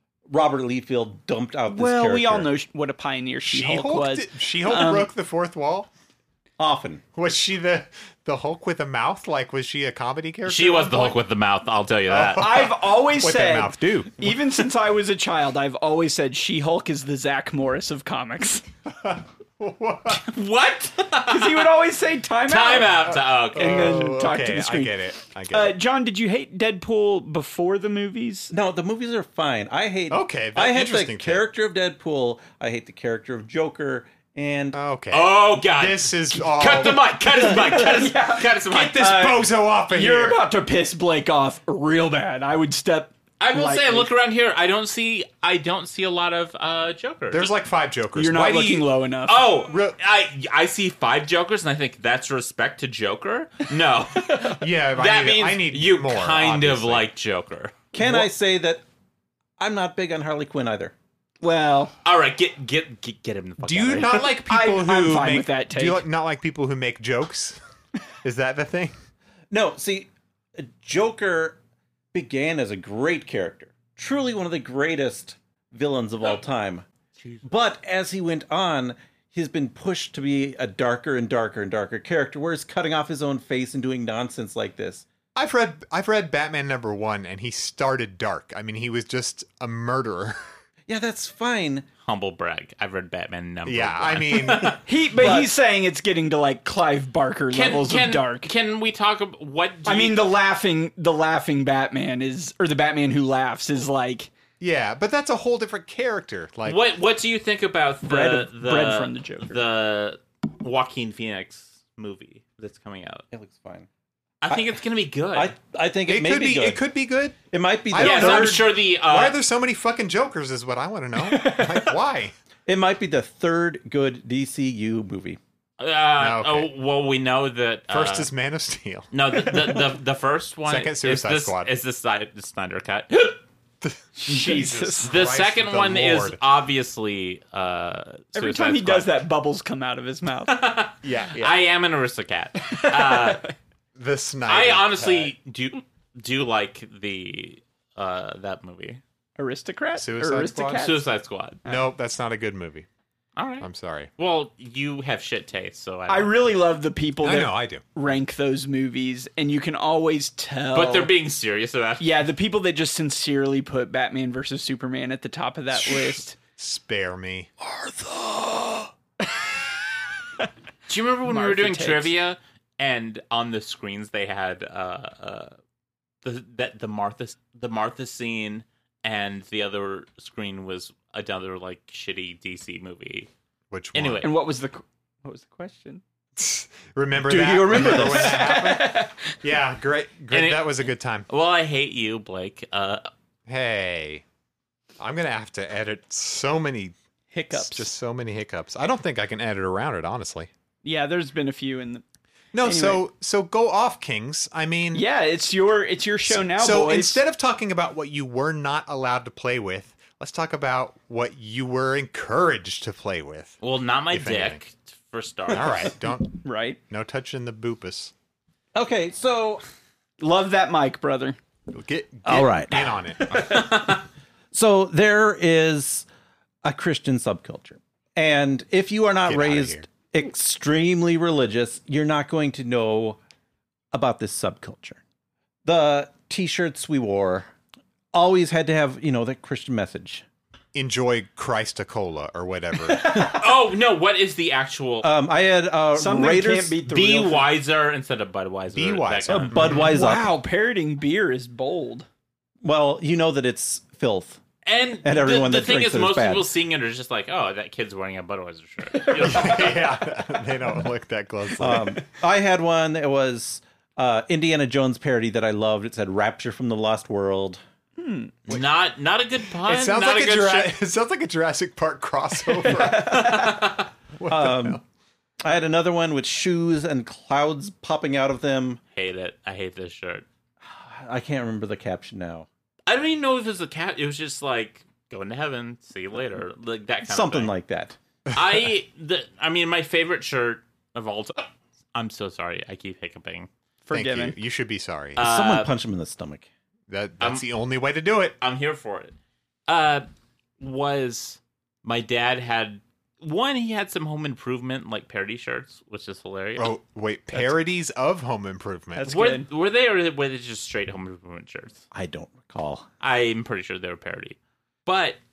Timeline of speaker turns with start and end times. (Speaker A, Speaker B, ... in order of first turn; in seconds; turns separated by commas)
Speaker A: 0.3-2.5, Speaker B: 1.7-5.1, Speaker C: 3.4-5.9, Speaker A: 6.6-7.0, Speaker C: 7.2-11.2, Speaker D: 10.5-12.6, Speaker C: 12.1-14.4, Speaker B: 12.4-18.6, Speaker C: 19.0-20.2, Speaker D: 20.1-21.7, Speaker B: 21.3-25.0, Speaker D: 22.5-24.0, Speaker C: 23.5-25.8, Speaker B: 25.5-28.5, Speaker A: 28.5-34.8, Speaker C: 30.1-31.5, Speaker C: 34.7-37.2, Speaker D: 35.1-39.3, Speaker B: 37.5-39.4, Speaker C: 38.7-40.4, Speaker B: 39.9-44.1, Speaker D: 43.4-47.5, Speaker C: 47.3-48.9, Speaker B: 48.1-49.5, Speaker D: 49.3-57.7, Speaker C: 49.6-50.0, Speaker C: 54.4-57.1, Speaker A: 57.9-58.8, Speaker A: 59.6-60.9, Speaker B: 61.4-61.9, Speaker D: 62.0-64.3, Speaker C: 63.6-67.6, Speaker B: 64.5-66.0, Speaker C: 68.2-68.9, Speaker A: 69.5-71.6, Speaker A: 72.1-76.8, Speaker A: 77.4-85.1, Speaker C: 85.3-90.4, Speaker A: 90.9-91.9, Speaker D: 92.0-94.8, Speaker C: 93.7-94.8, Speaker B: 94.8-98.5, Speaker A: 95.2-95.5, Speaker D: 97.5-100.2, Speaker B: 99.9-104.3, Speaker C: 104.6-106.8, Speaker D: 106.7-113.2, Speaker B: 108.0-109.6, Speaker A: 113.3-113.9, Speaker D: 114.4-115.5, Speaker A: 114.5-114.8, Speaker A: 115.3-116.8, Speaker C: 116.0-117.4, Speaker A: 117.5-118.6, Speaker C: 117.9-122.3, Speaker D: 118.0-119.4, Speaker B: 121.2-121.9, Speaker A: 122.7-125.4, Speaker D: 125.8-128.3, Speaker C: 126.2-126.7, Speaker C: 127.9-129.8, Speaker D: 129.1-133.4, Speaker C: 130.7-131.7, Speaker C: 133.8-136.4, Speaker B: 134.2-135.1, Speaker D: 135.1-139.2, Speaker B: 138.3-140.5, Speaker D: 140.5-143.5, Speaker C: 141.0-141.6, Speaker B: 142.7-143.4, Speaker C: 144.0-145.3, Speaker D: 144.5-149.0, Speaker B: 149.4-151.1, Speaker C: 149.9-150.9, Speaker D: 150.8-151.6, Speaker C: 151.7-152.9, Speaker D: 153.4-153.7, Speaker C: 153.6-154.1, Speaker D: 154.2-156.5, Speaker B: 156.1-161.1, Speaker C: 157.2-157.8, Speaker D: 160.7-162.3, Speaker B: 162.0-166.4, Speaker C: 165.7-167.5, Speaker B: 167.6-169.5, Speaker D: 170.9-175.6, Speaker B: 171.3-172.1, Speaker D: 176.2-183.3, Speaker C: 183.7-184.3, Speaker D: 183.9-184.3, Speaker B: 184.2-186.0, Speaker C: 186.4-191.3, Speaker A: 187.2-188.6, Speaker B: 187.8-189.2, Speaker D: 190.3-193.1, Speaker C: 193.5-194.2, Speaker C: 195.0-196.9, Speaker B: 197.3-197.9, Speaker C: 197.5-200.5, Speaker B: 200.8-202.0, Speaker C: 202.5-205.1, Speaker B: 202.6-203.0, Speaker B: 204.9-207.2, Speaker C: 206.3-213.6, Speaker D: 213.6-215.9, Speaker C: 214.1-214.6, Speaker C: 215.5-218.1, Speaker B: 216.4-216.8, Speaker A: 218.7-219.6, Speaker B: 220.2-221.4, Speaker C: 221.7-223.9, Speaker A: 222.2-224.0, Speaker A: 224.5-226.1, Speaker A: 226.6-233.2, Speaker C: 229.2-229.9, Speaker A: 233.9-235.0, Speaker A: 235.7-237.5, Speaker A: 238.1-240.2, Speaker C: 240.7-243.2, Speaker B: 242.9-243.2, Speaker D: 243.2-245.1, Speaker A: 245.0-246.8, Speaker B: 245.9-247.5, Speaker D: 246.9-249.8, Speaker C: 248.7-249.9, Speaker A: 249.3-250.3, Speaker B: 249.9-252.1, Speaker A: 252.6-254.4, Speaker D: 254.7-259.9, Speaker A: 255.0-256.5, Speaker C: 259.2-262.0, Speaker A: 261.6-267.6, Speaker B: 268.0-268.4, Speaker D: 268.5-270.7, Speaker C: 269.6-274.8, Speaker B: 272.6-273.6, Speaker D: 272.8-273.9, Speaker A: 274.3-274.8, Speaker A: 275.4-278.8, Speaker D: 278.9-280.3, Speaker A: 280.6-282.5, Speaker D: 282.9-287.5, Speaker A: 287.1-288.0, Speaker D: 288.3-293.5, Speaker B: 293.9-294.4, Speaker C: 293.9-295.3, Speaker D: 295.2-295.7, Speaker A: 295.2-296.5, Speaker C: 296.9-298.4, Speaker D: 298.4-299.2, Speaker D: 299.7-300.1, Speaker D: 300.6-306.7, Speaker C: 306.6-309.1, Speaker B: 309.0-309.4, Speaker D: 309.0-311.8, Speaker A: 311.9-312.9, Speaker D: 313.0-315.2